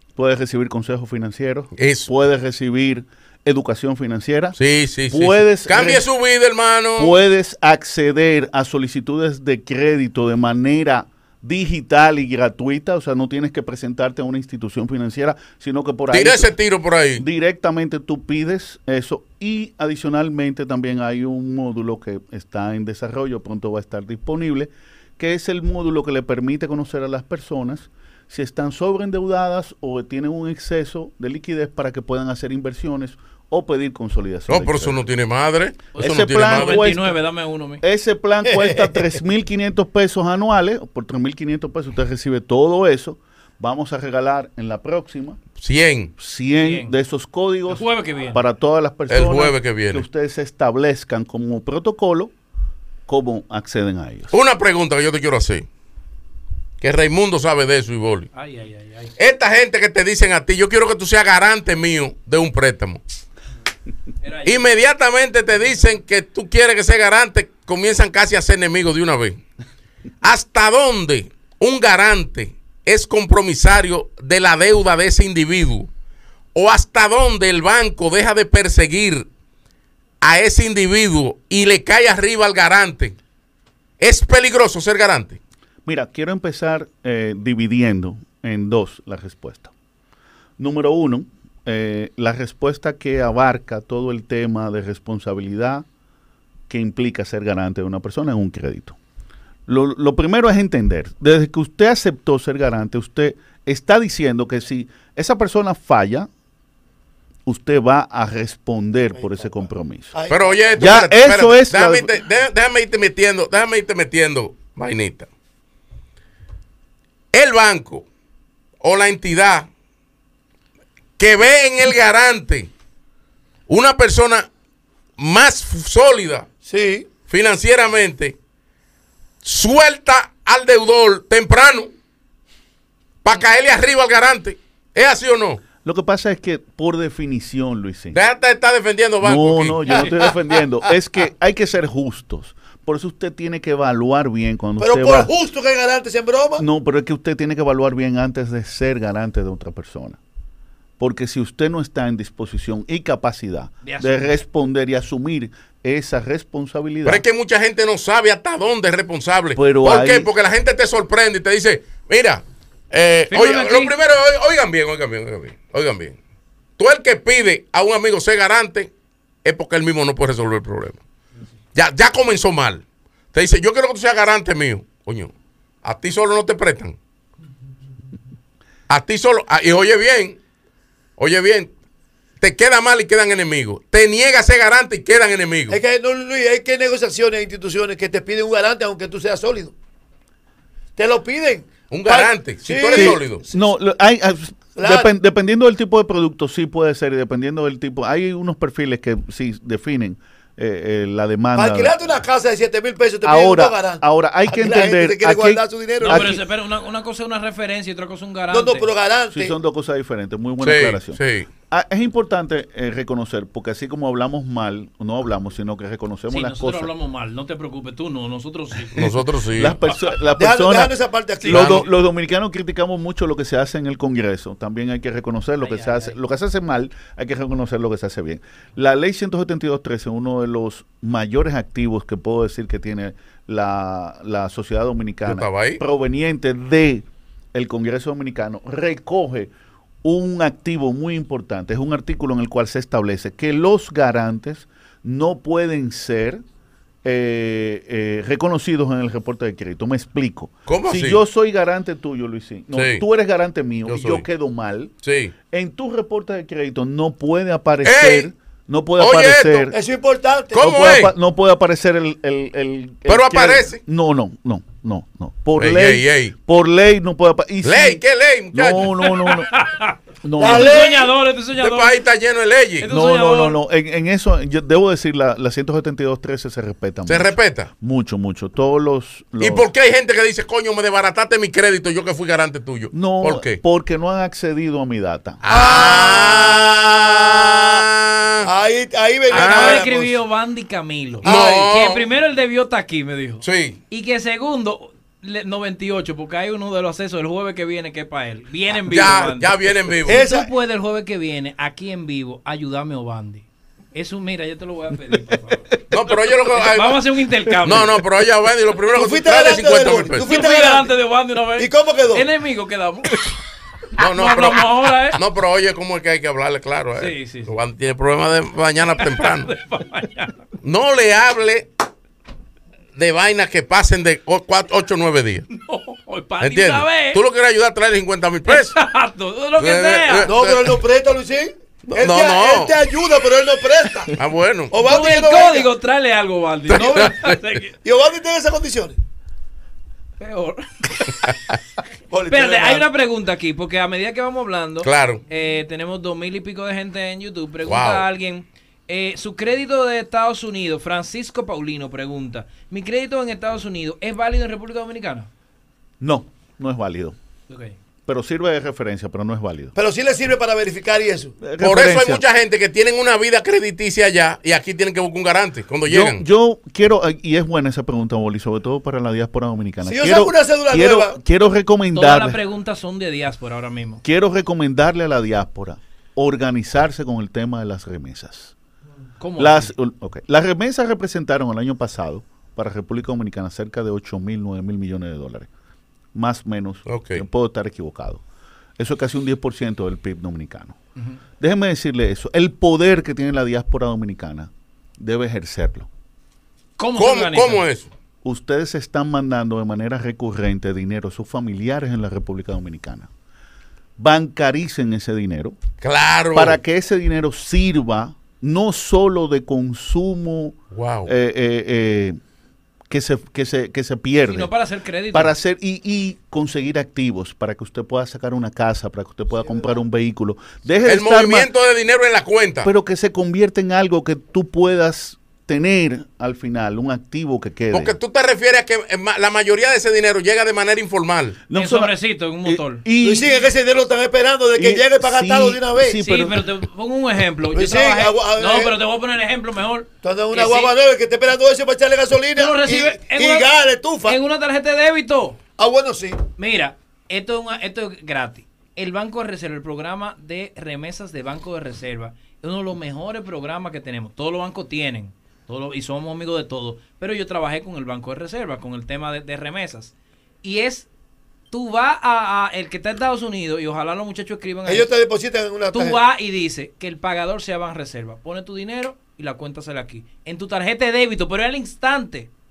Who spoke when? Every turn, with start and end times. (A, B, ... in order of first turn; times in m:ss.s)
0:00.2-0:04.6 A
0:01.8-0:02.1 B
0:04.6-0:07.2 B
0:05.1-0:06.0 A
0:07.0-0:16.5 A
0:16.1-0:17.2 B
0:17.2-0:35.0 A
0:34.5-0:36.9 B
0:35.9-0:37.8 C
0:36.0-0:37.2 A
0:37.8-0:45.4 A
0:38.5-0:39.0 D
0:45.6-0:46.1 B
0:46.2-0:52.3 A
0:46.6-0:46.9 C
0:47.7-0:48.4 C
0:49.1-0:50.0 B
0:53.1-0:54.3 A
0:54.3-0:55.7 B
0:56.8-0:58.3 B
0:58.3-0:59.1 C
0:59.2-1:03.0 B
1:04.2-1:04.6 C
1:04.4-1:09.4 B
1:10.2-1:15.9 B
1:16.5-1:19.3 B
1:20.2-1:23.2 B
1:24.0-1:25.4 B
1:25.8-1:29.7 A
1:30.6-1:35.8 A
1:36.7-1:39.0 A
1:39.7-1:46.3 A
1:47.4-1:50.1 A
1:49.2-1:49.6 D
1:50.1-1:51.1 D
1:50.3-1:55.3 B
1:50.8-1:52.1 A
1:57.3-1:58.0 B
1:58.8-1:59.7 B
2:01.2-2:02.7 B
2:03.7-2:04.5 B
2:05.2-2:06.5 B
2:06.6-2:07.1 D
2:07.3-2:08.4 B
2:09.4-2:11.9 B
2:13.2-2:15.6 B
2:15.8-2:18.2 A
2:18.1-2:20.2 B
2:19.2-2:25.3 A
2:20.0-2:20.3 D
2:24.8-2:26.6 D
2:26.6-2:30.2 A
2:31.0-2:37.2 A
2:33.8-2:34.3 C
2:37.0-2:46.2 B
2:39.6-2:40.3 A
2:43.3-2:43.9 C
2:46.8-2:48.9 B
2:49.4-2:51.0 B
2:51.7-2:55.3 B
2:55.8-2:57.0 B
2:58.9-3:00.4 B
3:01.2-3:01.7 B
3:02.4-3:05.8 B
3:05.7-3:09.7 D
3:11.0-3:13.7 D
3:11.9-3:13.4 B
3:12.9-3:21.9 A
3:14.7-3:15.1 D
3:21.5-3:26.4 D
3:23.2-3:26.4 A
3:26.0-3:28.9 C
3:28.5-3:29.6 D
3:29.3-3:36.9 A
3:30.6-3:31.5 B
3:36.3-3:39.2 C
3:38.9-3:39.8 B
3:39.5-3:59.5 A
3:40.3-3:41.8 D
3:41.5-3:41.8 B
3:45.6-3:46.2 C
3:55.2-3:55.8 B
4:00.0-4:06.4 A
4:07.0-4:14.9 A
4:10.7-4:11.2 B
4:12.7-4:13.0 B
4:13.8-4:14.2 B
4:15.0-4:15.3 B
4:15.5-4:19.7 A
4:17.8-4:18.3 B
4:19.0-4:19.7 B
4:19.7-4:20.6 D
4:20.5-4:21.1 B
4:20.6-4:28.0 A
4:23.1-4:23.8 B
4:25.6-4:26.3 B
4:27.6-4:29.0 B
4:28.5-4:29.5 A
4:29.0-4:32.0 C
4:30.2-4:30.9 A
4:30.4-4:31.1 D
4:31.6-4:32.9 B
4:32.8-4:33.6 C
4:32.9-4:39.6 A
4:37.1-4:37.7 B
4:39.4-4:43.6 B
4:42.9-4:45.4 A
4:45.4-4:48.5 B
4:45.5-4:47.8 D
4:48.4-4:50.2 D
4:49.3-5:05.6 C
4:49.3-4:49.8 B
4:51.2-4:52.0 B
4:51.2-4:51.6 D
4:53.4-4:53.8 B
4:58.9-5:00.2 B
5:00.1-5:00.5 D
5:05.3-5:05.8 A
5:05.9-5:07.0 B
5:06.5-5:08.0 C
5:07.6-5:10.3 B
5:08.9-5:10.9 D
5:10.2-5:13.3 C
5:11.6-5:12.2 D
5:14.0-5:19.5 B
5:14.0-5:15.2 C
5:17.0-5:17.5 C
5:19.0-5:20.4 C
5:20.6-5:21.7 B
5:23.0-5:25.5 B
5:25.5-5:27.2 C
5:26.4-5:28.8 B
5:28.5-5:30.3 C
5:29.6-5:30.8 B
5:30.3-5:34.1 D
5:31.9-5:32.8 B
5:34.2-5:34.8 B
5:34.7-5:35.7 D
5:34.8-5:37.8 C
5:36.7-5:37.4 B
5:37.8-5:39.0 D
5:40.2-5:41.2 C
5:42.1-5:42.8 D
5:42.3-5:55.3 C
5:44.8-5:45.2 B
5:47.6-5:48.1 B
5:56.0-5:57.2 A
5:57.5-5:57.8 C
5:58.0-5:59.7 A
5:59.7-6:01.4 D
6:01.4-6:02.2 A
6:01.6-6:06.2 B
6:05.9-6:12.4 A
6:09.8-6:11.2 D
6:11.9-6:14.0 C
6:14.0-6:18.5 A
6:19.2-6:19.7 C
6:19.4-6:25.5 A
6:26.1-6:28.2 A
6:26.9-6:27.2 B
6:28.8-6:30.8 A
6:31.4-6:35.9 A
6:36.8-6:37.6 C
6:37.0-6:37.9 B
6:38.2-6:43.1 A
6:44.0-6:45.6 A
6:45.8-6:46.6 B
6:46.3-6:52.2 A
6:50.7-6:51.1 B
6:52.9-6:54.5 A
6:54.2-6:55.3 C
6:55.1-7:01.5 A
6:59.5-6:59.7 D
7:00.8-7:02.7 B
7:02.6-7:07.9 A
7:07.7-7:11.4 B
7:11.5-7:11.9 A
7:11.5-7:12.8 C
7:12.4-7:13.4 A
7:13.0-7:16.0 D
7:14.6-7:16.4 A
7:16.0-7:20.7 C
7:17.5-7:18.7 D
7:20.0-7:24.2 D
7:22.4-7:23.5 C
7:24.0-7:25.4 C
7:25.6-7:26.2 D
7:26.4-7:40.9 C
7:41.5-7:44.9 C
7:44.6-7:46.0 D
7:45.7-7:52.3 C